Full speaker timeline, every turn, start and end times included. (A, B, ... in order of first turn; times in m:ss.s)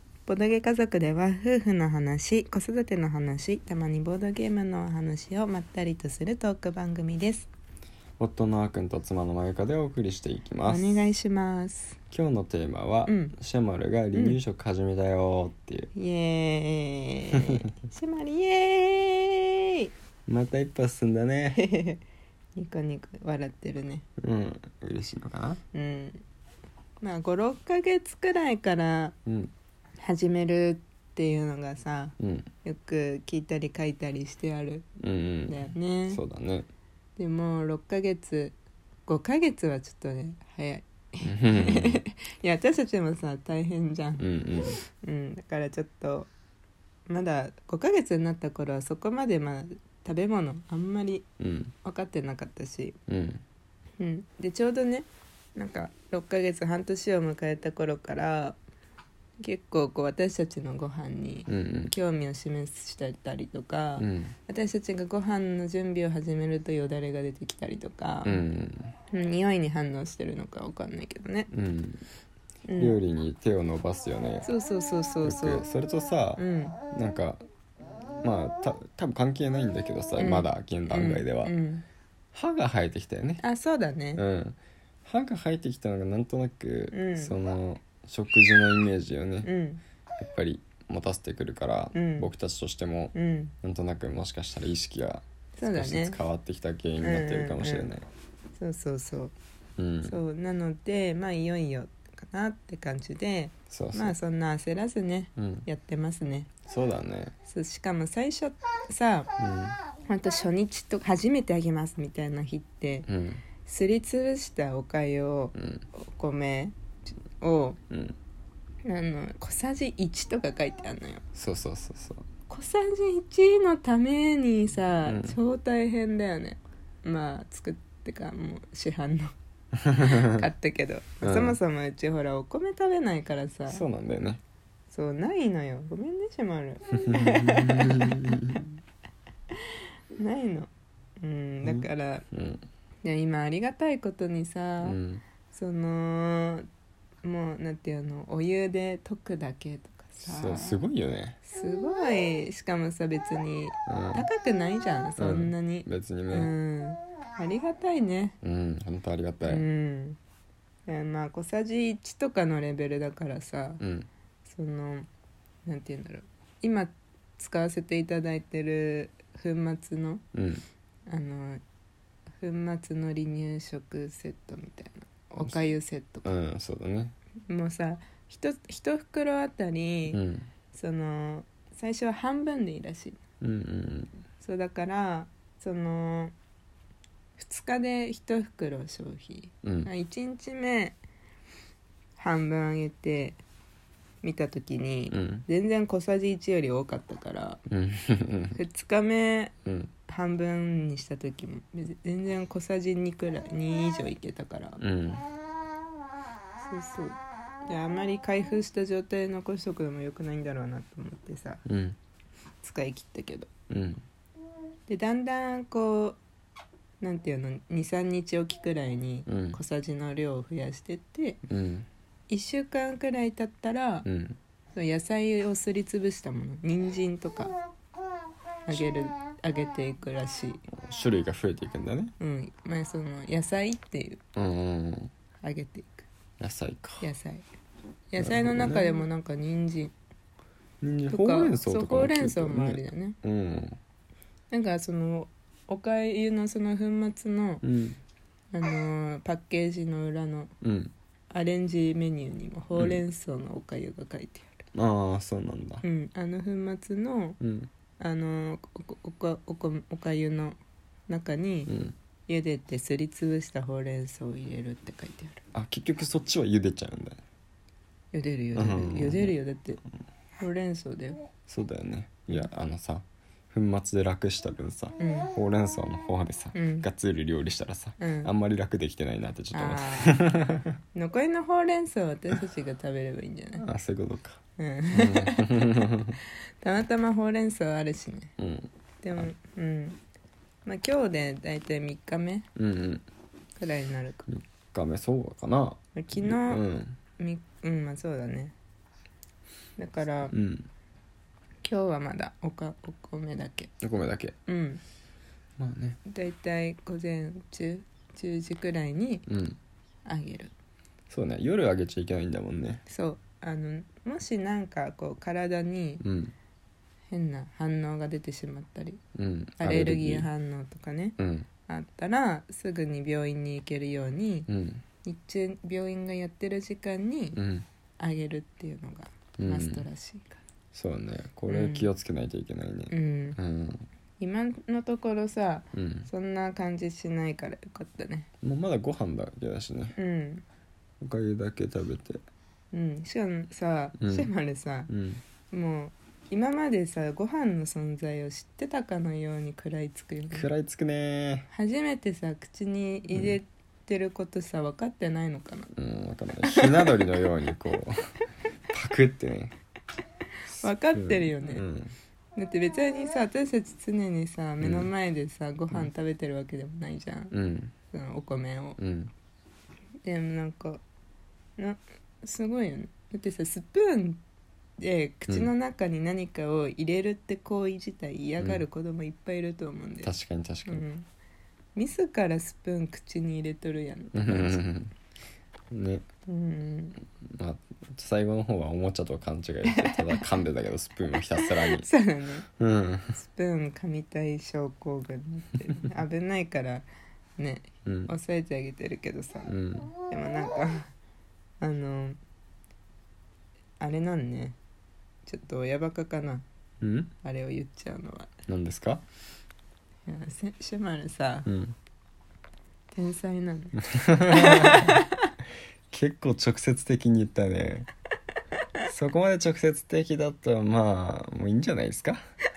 0:00.2-0:07.5 A
0:08.2-0:11.0 B
0:10.7-0:12.0 A
0:12.1-0:15.9 B
0:13.0-0:13.4 A
0:15.9-0:19.9 A
0:20.3-0:21.6 B
0:21.6-0:22.0 A
0:22.6-0:24.0 A
0:24.2-0:25.6 B
0:25.7-0:26.2 A
0:27.0-0:29.1 A
0:29.2-0:29.5 B
0:30.0-0:34.8 A
0:32.2-0:32.5 B
0:35.0-0:36.7 B
0:35.5-0:36.2 A
0:37.2-0:38.5 A
0:39.1-0:44.2 A
0:41.2-0:42.0 B
0:44.2-0:44.8 B
0:44.8-0:46.3 A
0:47.1-0:51.3 A
0:51.4-0:51.7 B
0:51.8-0:53.0 A
0:53.1-0:53.4 B
0:54.0-0:58.6 A
0:59.4-1:08.4 A
1:01.5-1:01.9 B
1:04.0-1:04.3 B
1:08.2-1:08.9 B
1:09.1-1:11.5 A
1:11.5-1:12.0 B
1:12.7-1:13.0 A
1:12.8-1:14.5 B
1:14.4-1:15.6 A
1:15.2-1:17.4 B
1:16.4-1:16.8 A
1:18.2-1:21.5 B
1:20.2-1:21.8 A
1:22.3-1:23.4 B
1:23.4-1:24.2 A
1:24.2-1:29.5 B
1:26.9-1:27.3 A
1:29.4-1:29.8 A
1:30.2-1:38.1 B
1:31.9-1:32.3 A
1:33.1-1:33.5 A
1:35.6-1:36.2 A
1:37.0-1:37.9 A
1:38.5-1:39.3 A
1:39.8-1:40.2 B
1:40.0-1:46.5 A
1:43.7-1:44.1 B
1:45.4-1:45.6 B
1:46.7-1:47.3 B
1:47.5-1:49.3 A
1:49.4-1:49.8 B
1:50.0-1:53.1 A
1:53.1-1:53.4 B
1:53.6-1:57.8 A
1:55.6-1:55.8 B
1:57.9-1:58.2 B
1:58.8-2:01.2 A
2:01.3-2:02.2 B
2:02.5-2:09.3 A
2:05.0-2:05.4 B
2:09.8-2:10.4 B
2:10.0-2:13.8 A
2:11.2-2:11.6 B
2:13.7-2:14.4 B
2:14.9-2:18.6 A
2:17.0-2:18.7 B
2:19.6-2:20.7 A
2:21.2-2:22.2 A
2:21.6-2:22.6 B
2:23.0-2:25.0 A
2:24.8-2:25.2 B
2:25.5-2:26.7 A
2:27.2-2:30.8 A
2:30.2-2:31.4 B
2:31.4-2:38.4 A
2:33.9-2:34.3 B
2:35.2-2:36.5 B
2:38.4-2:39.6 B
2:39.4-2:40.2 A
2:40.9-2:43.8 A
2:43.8-2:44.1 B
2:44.4-2:45.1 A
2:45.6-2:50.2 A
2:50.3-2:50.6 B
2:51.1-2:51.6 A
2:52.4-2:56.3 A
2:56.2-2:57.1 B
2:57.5-3:00.2 A
3:00.1-3:00.5 B
3:00.7-3:03.2 A
3:03.4-3:04.1 B
3:04.4-3:06.3 A
3:07.4-3:11.0 A
3:09.6-3:09.9 B
3:12.2-3:13.4 A
3:14.2-3:17.6 A
3:15.1-3:15.4 B
3:17.7-3:18.6 B
3:18.5-3:19.5 A
3:19.6-3:19.9 B
3:20.0-3:24.8 A
3:24.8-3:25.3 B
3:26.6-3:31.6 A
3:31.6-3:32.0 B
3:32.6-3:33.5 A
3:33.7-3:34.0 B
3:34.9-3:36.2 A
3:37.0-3:41.4 A
3:39.3-3:39.6 B
3:41.5-3:41.9 B
3:42.3-3:44.0 A
3:44.0-3:44.4 B
3:44.7-3:47.6 A
3:48.6-3:50.6 A
3:50.8-3:52.1 B
3:52.2-3:54.2 A
3:54.4-3:55.1 B
3:55.4-3:56.1 A
3:56.4-3:57.0 B
3:57.0-3:57.4 A
3:58.1-3:59.9 A
3:58.2-3:59.0 B
4:00.8-4:03.8 B
4:01.1-4:03.2 A
4:04.5-4:07.6 A
4:07.6-4:08.0 B
4:08.5-4:10.5 A
4:10.6-4:10.9 B
4:11.3-4:14.6 A
4:12.7-4:13.0 B
4:14.7-4:15.8 B
4:15.8-4:17.4 A
4:17.4-4:17.7 B
4:18.0-4:20.6 A
4:21.1-4:21.7 A
4:21.7-4:21.9 B
4:22.3-4:25.4 A
4:25.5-4:27.2 B
4:28.1-4:29.8 A
4:28.5-4:29.4 B
4:30.4-4:31.2 A
4:31.5-4:40.7 B
4:35.0-4:35.3 A
4:36.5-4:36.8 A
4:38.0-4:38.3 A
4:39.5-4:40.2 A
4:40.9-4:43.6 A
4:43.6-4:44.4 B
4:44.6-4:45.6 A
4:44.9-4:46.2 B
4:46.6-4:48.3 A
4:48.4-4:48.7 B
4:49.0-4:50.0 A
4:50.6-4:52.5 A
4:52.6-4:53.0 B
4:53.6-4:54.3 A
4:54.3-4:57.0 B
4:55.9-4:56.6 A
4:57.2-4:58.5 A
4:59.8-5:00.3 A
5:00.3-5:00.7 B
5:01.6-5:03.7 A
5:03.8-5:04.4 B
5:04.4-5:04.8 A
5:05.6-5:06.0 B
5:06.0-5:09.2 A
5:09.3-5:09.6 B
5:10.0-5:10.5 A
5:11.1-5:12.8 B
5:12.9-5:16.0 A
5:16.0-5:16.3 B
5:17.1-5:19.0 A
5:19.2-5:20.3 B
5:19.6-5:24.5 A
5:21.2-5:21.5 B
5:24.5-5:24.8 B
5:25.0-5:27.4 A
5:27.4-5:27.6 B
5:28.0-5:30.4 A
5:29.4-5:29.8 B
5:30.7-5:33.8 B
5:31.5-5:31.9 A
5:32.9-5:33.4 A
5:34.2-5:38.3 A
5:35.7-5:36.1 B
5:38.4-5:40.0 B
5:40.0-5:40.4 A
5:41.0-5:42.2 B
5:42.7-5:44.9 A
5:44.0-5:44.3 B
5:44.9-5:45.2 B
5:45.5-5:50.5 A
5:50.3-5:51.5 B
5:51.5-5:55.7 A
5:55.8-5:58.0 B
5:56.5-5:57.0 A
5:58.7-5:59.5 B
6:00.5-6:01.6 A
6:00.5-6:01.9 B
6:02.4-6:07.3 A
6:04.6-6:04.9 B
6:07.3-6:07.7 B
6:07.9-6:08.8 A
6:08.8-6:09.1 B
6:10.0-6:10.8 A
6:11.6-6:14.2 A
6:14.8-6:20.1 A
6:20.0-6:20.8 B
6:20.6-6:21.0 A
6:21.8-6:24.6 A
6:24.1-6:24.9 B
6:25.7-6:26.0 B
6:26.3-6:27.0 A
6:27.2-6:31.9 B
6:29.7-6:30.2 A
6:31.4-6:32.4 A
6:32.6-6:33.2 B
6:33.2-6:36.8 A
6:37.4-6:40.9 A
6:37.8-6:38.1 B
6:39.5-6:39.9 B
6:41.6-6:42.2 A
6:43.8-6:44.6 A
6:45.2-6:46.4 A
6:46.8-6:47.1 B
6:47.2-6:48.3 A
6:48.5-6:49.0 B
6:50.1-6:51.5 A
6:51.4-6:51.8 B
6:52.9-6:55.2 A
6:53.8-6:54.9 B
6:55.9-6:57.9 B
6:58.8-7:02.2 B